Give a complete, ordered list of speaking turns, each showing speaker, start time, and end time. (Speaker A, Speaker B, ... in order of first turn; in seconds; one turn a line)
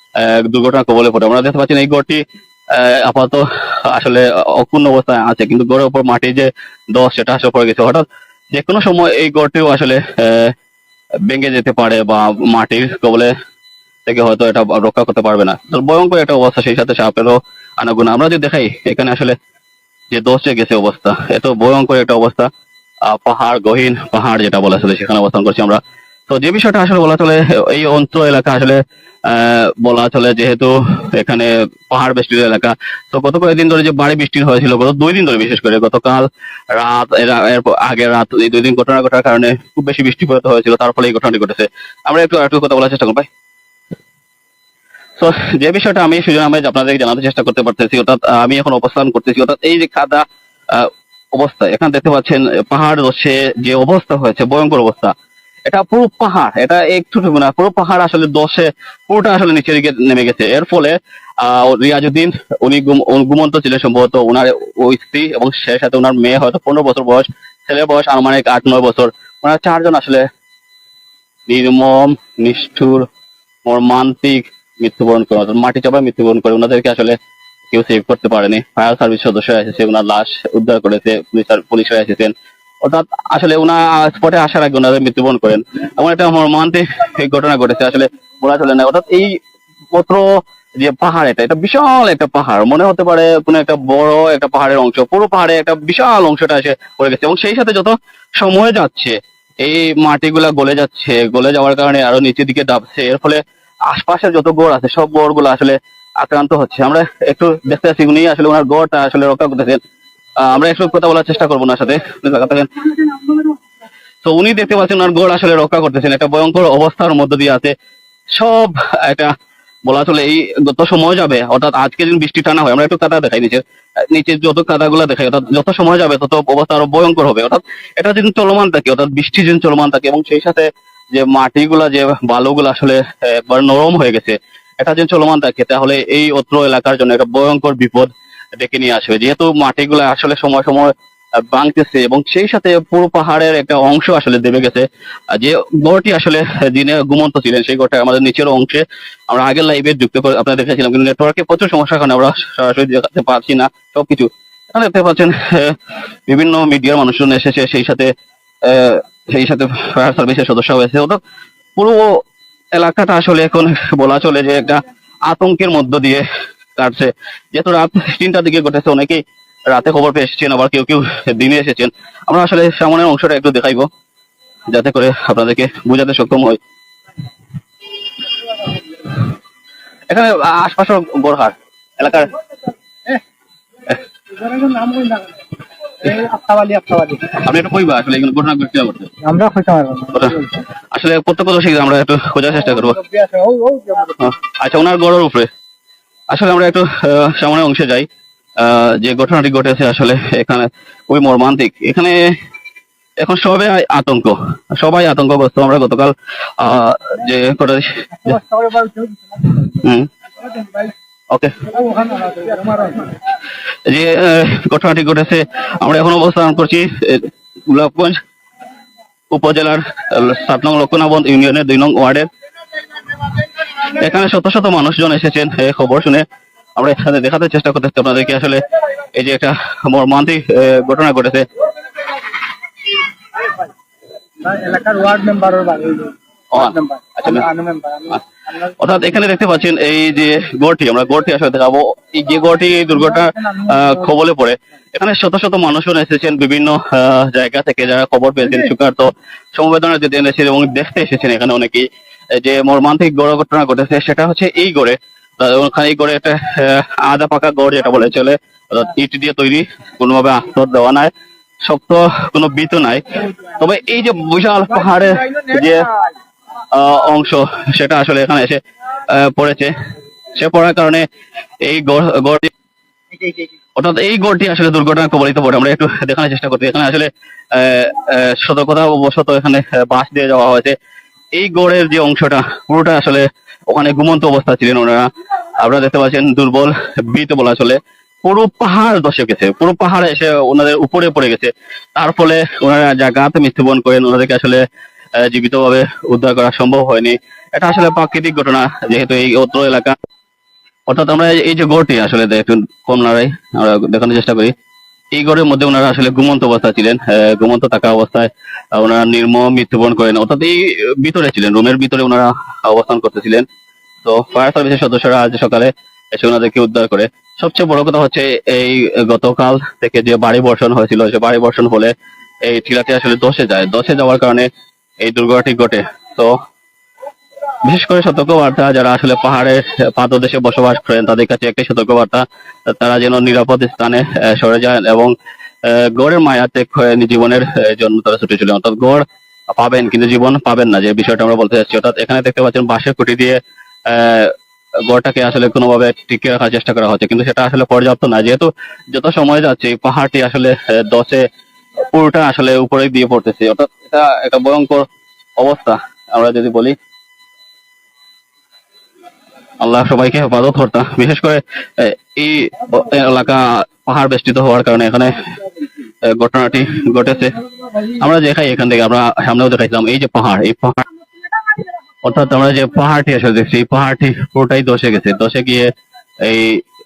Speaker A: 0.2-10.5
Speaker A: 11.3-13.3
Speaker A: 14.1-19.4
Speaker A: 20.1-22.5
Speaker A: 23.0-43.3
Speaker A: 45.2-55.1
Speaker A: 55.6-70.2
Speaker A: 71.5-73.1
Speaker A: 73.6-77.2
Speaker A: 77.7-89.4
Speaker A: 89.9-109.8
Speaker A: 110.4-112.8
Speaker A: 114.2-117.7
Speaker A: 118.3-119.3
Speaker A: 119.8-158.1
Speaker A: 158.6-161.2
Speaker A: 161.8-162.2
Speaker A: 162.7-166.2
Speaker A: 166.8-173.9
Speaker A: 174.7-176.6
Speaker A: 180.1-182.3
Speaker B: 184.3-185.4
Speaker B: 186.0-187.4
Speaker A: 187.3-189.1
Speaker B: 189.2-190.6
Speaker A: 190.1-193.0
Speaker B: 192.9-194.2
Speaker A: 194.2-195.5
Speaker A: 196.3-198.1
Speaker A: 198.6-202.3
Speaker A: 203.2-208.4
Speaker B: 208.2-209.4
Speaker A: 209.6-210.1
Speaker A: 211.3-211.7
Speaker B: 211.7-213.1
Speaker A: 213.8-218.2
Speaker A: 219.3-222.3
Speaker A: 223.9-226.2
Speaker A: 226.8-231.4
Speaker B: 234.4-238.2
Speaker A: 236.5-237.5
Speaker A: 238.1-261.1
Speaker B: 243.4-243.8
Speaker A: 261.6-265.9
Speaker A: 266.7-269.7
Speaker A: 270.4-271.1
Speaker A: 271.6-272.5
Speaker A: 273.8-280.7
Speaker A: 281.3-285.1
Speaker A: 285.6-294.6
Speaker A: 295.2-299.9
Speaker A: 300.9-304.5
Speaker A: 305.1-313.4
Speaker A: 314.0-324.5
Speaker A: 325.0-326.3
Speaker A: 327.6-344.3
Speaker A: 344.9-351.2
Speaker A: 351.9-354.8
Speaker A: 355.4-356.8
Speaker A: 359.6-365.2
Speaker A: 366.0-370.8
Speaker A: 372.0-375.7
Speaker A: 376.2-376.6